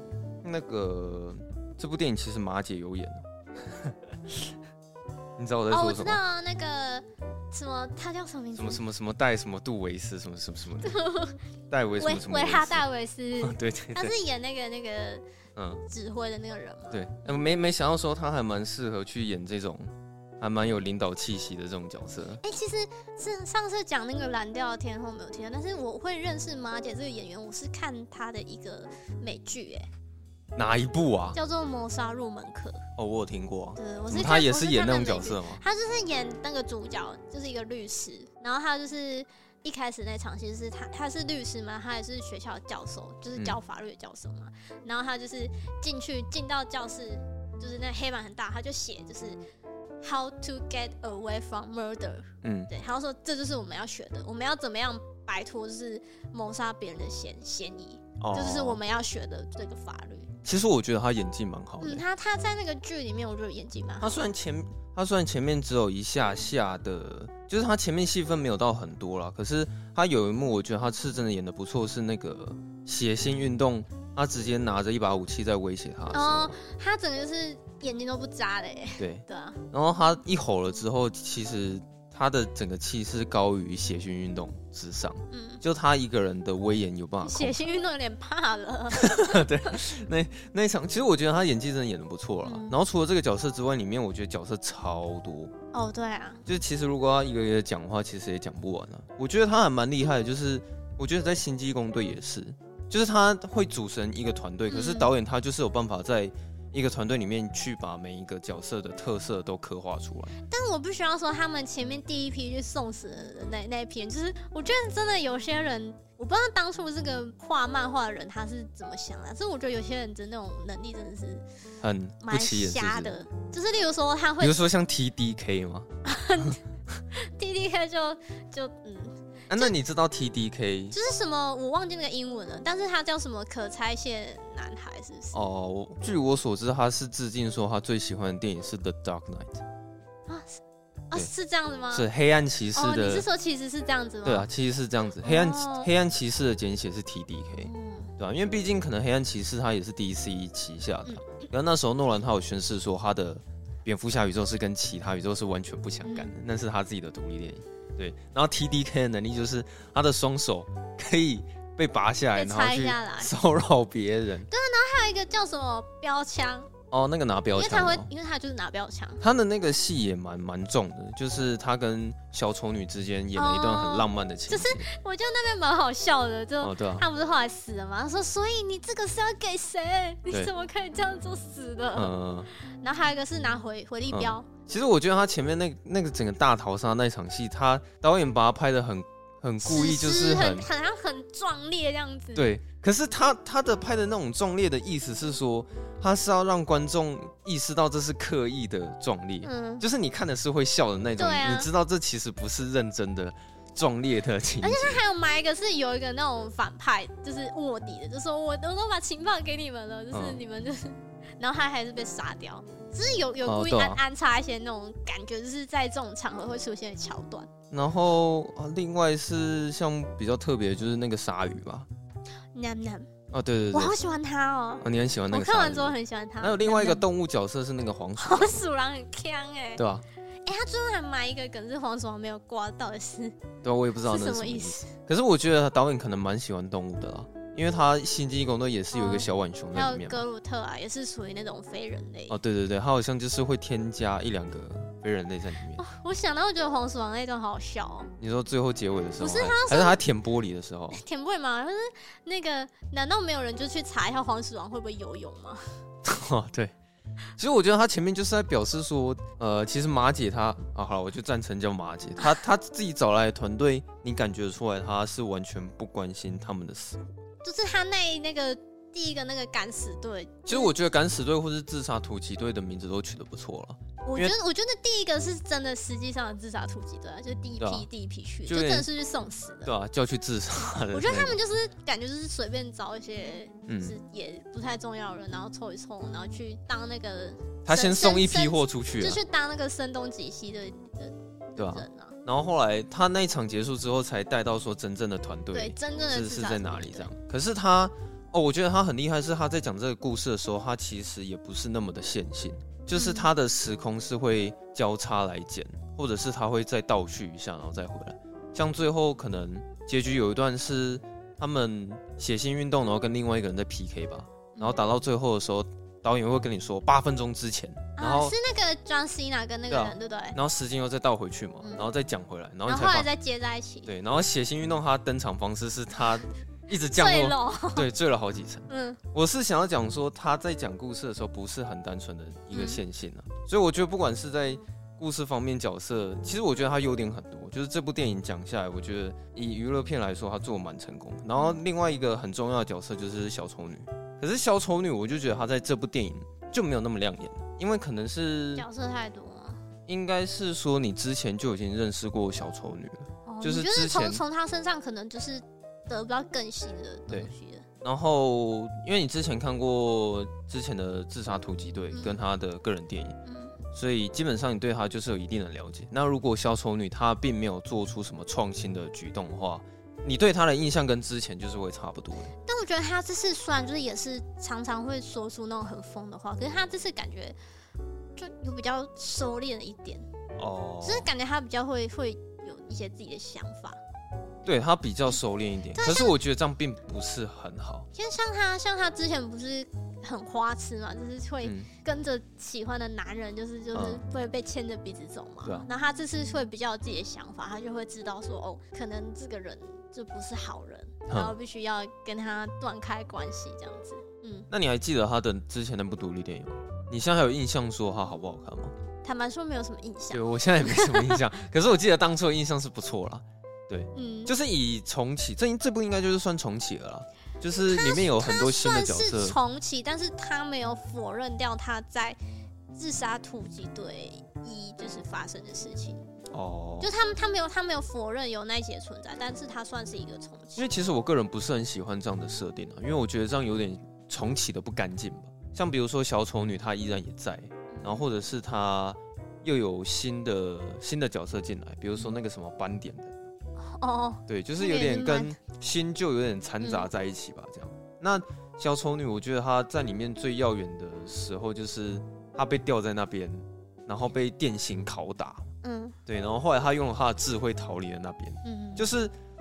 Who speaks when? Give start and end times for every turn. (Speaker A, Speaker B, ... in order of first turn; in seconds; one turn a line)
Speaker A: 0.4-4.5
Speaker A: 5.4-6.2
Speaker B: 5.7-8.8
Speaker A: 8.6-11.0
Speaker B: 10.8-11.4
Speaker A: 11.7-12.8
Speaker B: 12.0-15.2
Speaker A: 13.4-14.1
Speaker A: 15.6-15.8
Speaker B: 15.9-17.4
Speaker A: 16.9-22.4
Speaker B: 22.4-29.9
Speaker A: 30.6-31.4
Speaker B: 31.3-32.8
Speaker A: 33.0-35.6
Speaker B: 33.8-49.4
Speaker B: 50.0-60.3
Speaker A: 52.4-52.7
Speaker A: 58.2-58.8
Speaker A: 60.4-62.0
Speaker B: 61.8-64.2
Speaker A: 64.0-76.5
Speaker B: 76.1-79.6
Speaker A: 79.0-87.6
Speaker B: 85.3-85.6
Speaker B: 87.2-89.8
Speaker A: 88.9-95.5
Speaker B: 92.4-92.7
Speaker B: 95.7-96.4
Speaker A: 96.5-110.4
Speaker B: 104.7-105.1
Speaker B: 110.5-121.4
Speaker A: 121.8-123.2
Speaker B: 122.2-124.6
Speaker A: 124.4-126.5
Speaker B: 126.0-126.6
Speaker B: 127.1-129.7
Speaker A: 129.5-131.0
Speaker B: 130.9-135.4
Speaker A: 135.3-139.6
Speaker B: 140.3-142.1
Speaker A: 141.9-143.2
Speaker B: 142.7-144.5
Speaker A: 144.2-164.5
Speaker B: 145.2-145.9
Speaker B: 147.5-148.1
Speaker B: 151.1-151.5
Speaker B: 156.0-156.3
Speaker B: 162.3-163.3
Speaker B: 164.5-166.7
Speaker A: 166.9-168.1
Speaker B: 167.5-169.2
Speaker A: 169.2-174.9
Speaker B: 173.3-182.1
Speaker A: 176.6-177.1
Speaker A: 181.9-182.5
Speaker B: 182.8-184.5
Speaker A: 184.1-190.7
Speaker B: 189.6-192.5
Speaker A: 192.3-205.0
Speaker B: 199.4-199.8
Speaker B: 201.2-201.7
Speaker B: 204.6-217.5
Speaker A: 210.1-210.4
Speaker A: 213.4-214.0
Speaker A: 217.7-221.9
Speaker B: 222.5-223.1
Speaker A: 223.3-224.0
Speaker B: 223.7-227.0
Speaker A: 224.8-228.6
Speaker B: 228.2-229.8
Speaker A: 229.8-230.0
Speaker B: 230.4-233.4
Speaker A: 233.6-240.2
Speaker B: 234.0-234.9
Speaker B: 238.9-242.3
Speaker A: 242.3-245.8
Speaker B: 245.8-248.1
Speaker A: 248.2-251.0
Speaker B: 249.2-250.0
Speaker B: 250.9-255.7
Speaker A: 256.0-256.7
Speaker A: 257.4-267.2
Speaker B: 267.4-270.7
Speaker A: 270.4-274.3
Speaker B: 274.0-279.7
Speaker A: 277.6-277.9
Speaker A: 278.5-278.9
Speaker A: 279.6-281.4
Speaker B: 280.9-292.2
Speaker A: 283.7-284.0
Speaker A: 287.6-289.2
Speaker A: 291.6-318.3
Speaker B: 295.5-297.1
Speaker B: 302.9-303.3
Speaker B: 314.5-314.8
Speaker B: 318.0-320.4
Speaker A: 319.7-323.1
Speaker B: 321.6-321.9
Speaker B: 322.6-323.9
Speaker A: 323.9-348.6
Speaker B: 326.9-327.9
Speaker B: 328.7-329.0
Speaker B: 332.5-332.8
Speaker B: 348.6-349.6
Speaker A: 349.9-354.2
Speaker B: 353.2-357.6
Speaker A: 357.8-363.2
Speaker B: 361.9-362.2
Speaker B: 363.2-363.5
Speaker A: 363.7-372.3
Speaker B: 372.4-377.4
Speaker B: 378.1-380.1
Speaker A: 380.4-381.1
Speaker B: 380.8-383.8
Speaker A: 384.4-387.9
Speaker B: 385.7-386.1
Speaker B: 387.9-404.5
Speaker A: 391.4-391.7
Speaker A: 393.7-394.0
Speaker A: 401.1-401.4
Speaker A: 404.5-408.7
Speaker B: 409.0-411.2
Speaker A: 410.1-419.4
Speaker B: 413.9-414.3
Speaker B: 417.7-422.2
Speaker B: 422.7-426.0
Speaker A: 426.3-426.9
Speaker B: 426.8-430.7
Speaker A: 430.6-443.2
Speaker B: 437.7-438.0
Speaker B: 443.6-445.4
Speaker A: 444.3-455.5
Speaker B: 446.6-446.9
Speaker B: 455.6-455.9
Speaker A: 456.1-459.1
Speaker B: 458.4-458.9